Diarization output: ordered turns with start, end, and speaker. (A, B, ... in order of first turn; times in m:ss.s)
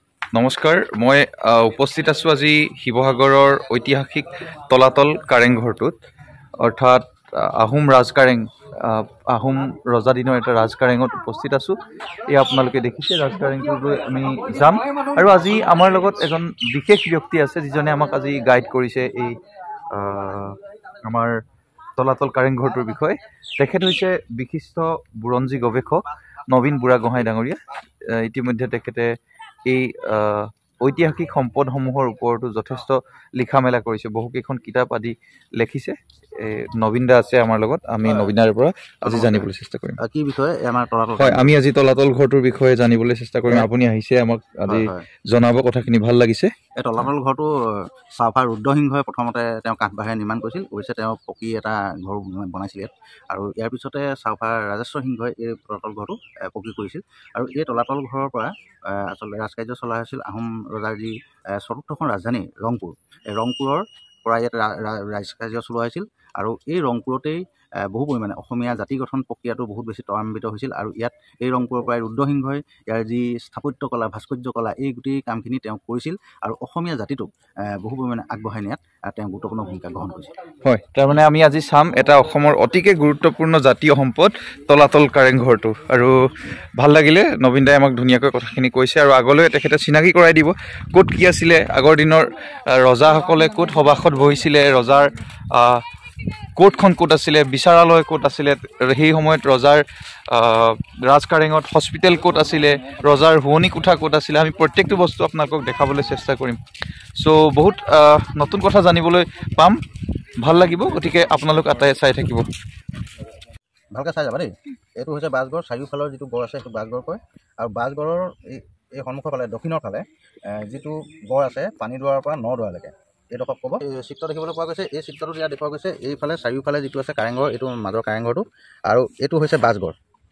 0:00.3-0:06.0 A
0:06.6-0:21.4 A
0:22.0-0:40.0 A
0:38.0-0:38.3 B
0:39.0-0:41.4 B
0:41.2-0:46.5 A
0:44.6-0:45.0 B
0:46.8-1:20.3 B
1:20.6-1:35.8 A
1:36.6-1:46.6 A
1:47.2-1:49.8 A
1:50.4-1:52.5 A
1:53.9-2:10.0 B